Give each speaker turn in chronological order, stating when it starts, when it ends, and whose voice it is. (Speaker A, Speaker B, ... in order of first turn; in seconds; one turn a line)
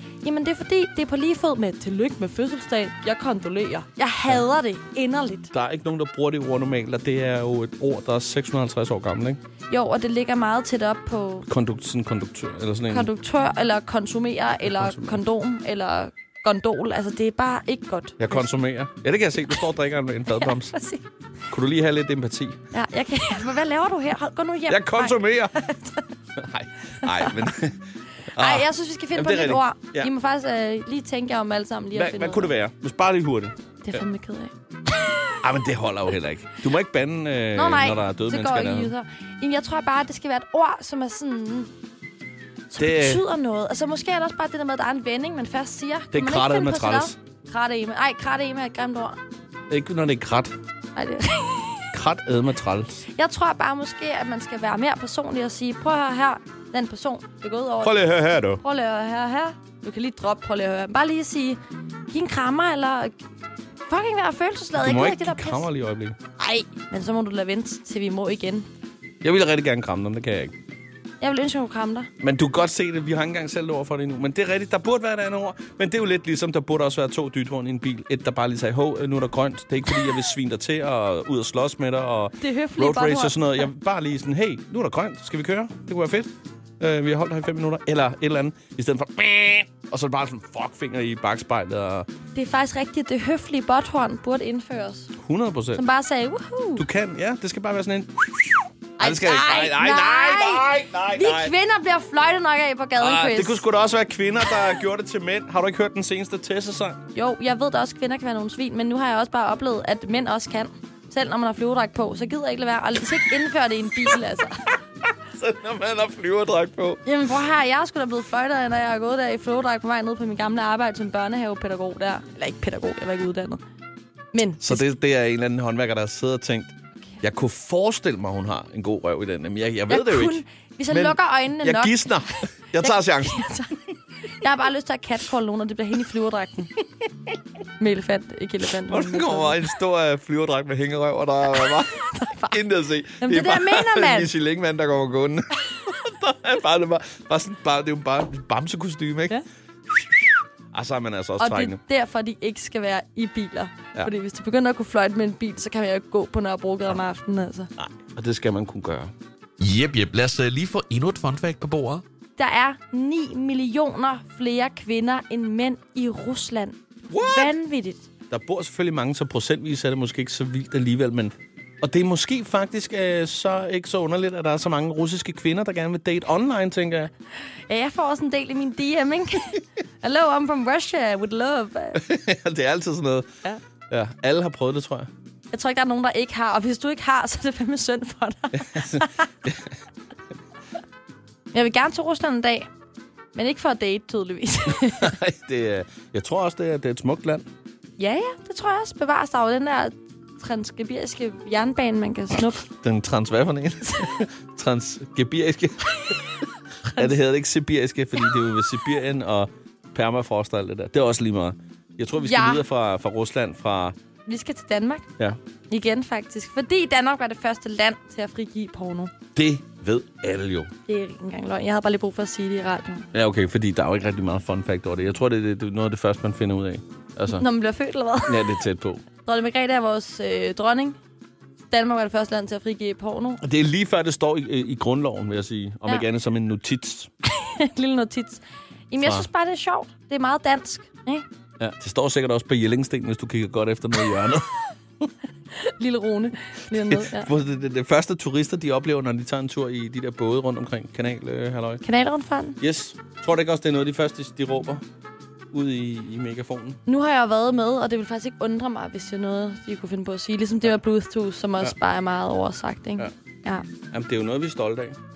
Speaker A: 0.2-5.5
Speaker B: 5.5-9.4
Speaker A: 9.7-11.5
Speaker B: 11.5-13.1
Speaker A: 12.9-18.5
Speaker B: 14.7-15.2
Speaker B: 18.2-20.8
Speaker A: 20.3-21.0
Speaker B: 21.5-22.6
Speaker A: 22.7-26.1
Speaker B: 24.7-25.5
Speaker B: 26.4-30.1
Speaker A: 27.0-27.4
Speaker A: 28.3-32.6
Speaker B: 31.9-34.0
Speaker A: 33.8-34.5
Speaker B: 35.4-38.9
Speaker A: 37.5-41.7
Speaker A: 42.7-49.2
Speaker B: 42.8-43.2
Speaker B: 46.1-47.1
Speaker B: 49.7-50.5
Speaker A: 50.9-51.9
Speaker B: 51.9-53.0
Speaker A: 53.1-58.0
Speaker B: 57.8-58.6
Speaker A: 58.6-61.6
Speaker A: 62.1-63.1
Speaker A: 63.9-65.7
Speaker B: 64.8-66.2
Speaker A: 66.4-68.7
Speaker B: 69.2-70.5
Speaker A: 71.2-72.1
Speaker B: 72.2-86.3
Speaker A: 82.4-83.7
Speaker B: 86.8-92.1
Speaker A: 92.3-95.1
Speaker B: 95.2-95.8
Speaker A: 95.8-96.8
Speaker B: 96.8-101.5
Speaker A: 99.0-103.6
Speaker B: 103.0-107.0
Speaker A: 107.1-114.7
Speaker B: 115.3-117.0
Speaker A: 117.0-123.6
Speaker A: 124.3-124.8
Speaker B: 124.5-133.5
Speaker A: 129.9-132.1
Speaker A: 132.8-133.8
Speaker A: 134.3-136.7
Speaker A: 137.8-139.6
Speaker B: 138.9-151.8
Speaker A: 141.6-142.6
Speaker A: 143.2-144.3
Speaker A: 151.4-157.7
Speaker B: 157.8-159.1
Speaker C: 159.6-162.0
Speaker A: 162.4-168.0
Speaker B: 167.1-167.5
Speaker B: 168.3-177.1
Speaker A: 177.7-182.0
Speaker B: 181.9-183.3
Speaker B: 183.9-185.1
Speaker A: 185.5-189.3
Speaker B: 188.5-189.7
Speaker A: 191.5-192.7
Speaker A: 193.3-195.1
Speaker B: 194.7-197.4
Speaker A: 198.0-202.6
Speaker B: 202.8-213.9
Speaker A: 206.8-207.2
Speaker A: 212.2-212.6
Speaker A: 214.2-215.1
Speaker A: 215.7-219.1
Speaker B: 219.3-220.7
Speaker A: 220.9-223.1
Speaker B: 223.1-227.5
Speaker A: 227.3-228.6
Speaker B: 228.2-229.0
Speaker A: 229.2-231.0
Speaker A: 231.7-233.4
Speaker B: 233.4-237.1
Speaker A: 237.2-241.2
Speaker B: 239.0-239.3
Speaker B: 241.6-244.5
Speaker A: 245.5-247.3
Speaker B: 246.7-251.8
Speaker A: 251.8-252.6
Speaker B: 252.6-254.8
Speaker B: 255.5-256.8
Speaker A: 256.9-263.7
Speaker B: 263.9-265.0